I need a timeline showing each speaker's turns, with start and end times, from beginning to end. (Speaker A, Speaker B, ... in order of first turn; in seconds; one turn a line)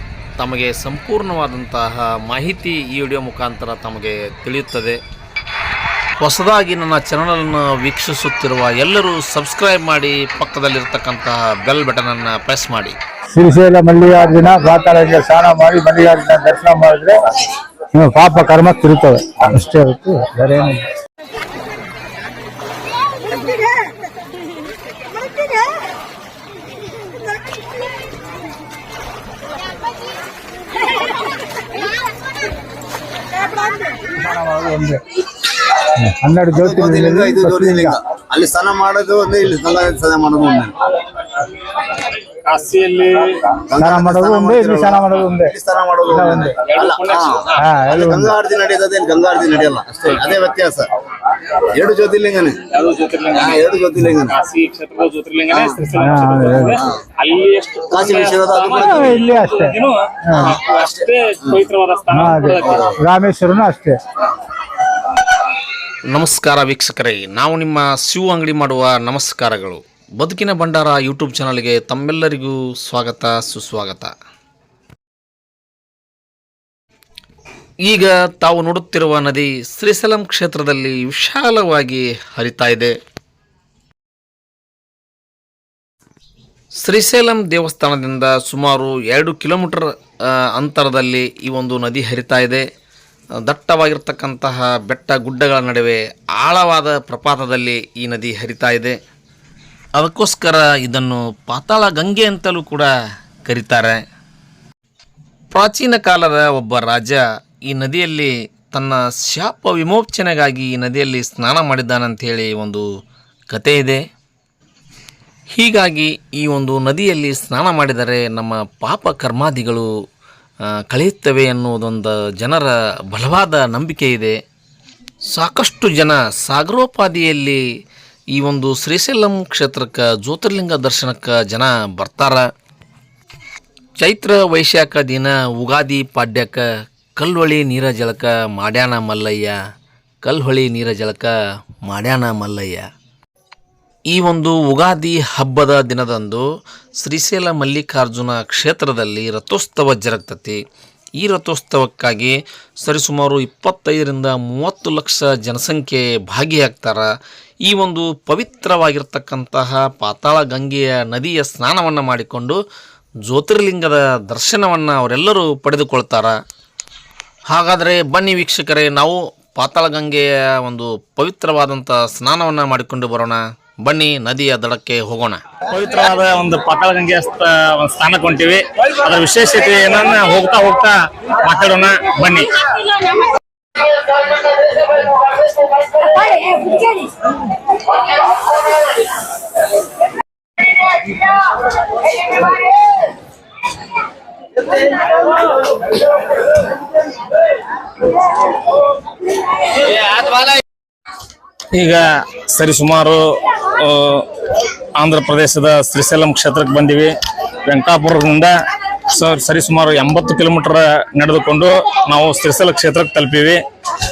Speaker A: 0.4-5.0
Speaker A: 6.2-13.0
Speaker B: 13.3-17.2
Speaker B: 17.9-20.8
Speaker B: 34.1-35.0
Speaker B: 36.2-38.0
Speaker C: 36.6-40.7
Speaker D: 42.5-43.4
Speaker C: 43.7-50.9
Speaker B: 43.8-45.5
Speaker B: 46.1-46.6
Speaker D: 46.7-47.3
Speaker B: 47.5-48.3
Speaker C: 51.7-52.6
Speaker D: 52.7-53.5
Speaker C: 53.3-54.4
Speaker D: 54.3-62.8
Speaker C: 55.5-55.8
Speaker B: 55.9-56.8
Speaker C: 57.9-59.1
Speaker B: 58.8-59.8
Speaker B: 60.3-60.6
Speaker B: 62.1-64.0
Speaker C: 62.7-62.9
Speaker A: 66.1-74.1
Speaker A: 77.8-82.9
Speaker A: 86.8-92.7
Speaker A: 93.4-99.0
Speaker A: 100.0-102.9
Speaker A: 103.5-104.0
Speaker A: 105.5-112.9
Speaker A: 113.5-114.0
Speaker A: 115.5-119.9
Speaker A: 120.9-124.3
Speaker A: 125.3-127.6
Speaker A: 128.3-132.4
Speaker A: 134.0-136.6
Speaker A: 137.2-139.6
Speaker A: 140.2-141.3
Speaker A: 141.8-142.8
Speaker A: 144.1-146.4
Speaker A: 147.0-150.6
Speaker A: 151.2-157.1
Speaker A: 157.6-162.6
Speaker A: 163.2-166.3
Speaker A: 167.5-175.4
Speaker D: 175.7-182.5
Speaker D: 201.7-204.3
Speaker D: 205.0-207.1
Speaker D: 207.7-208.5
Speaker D: 209.1-213.6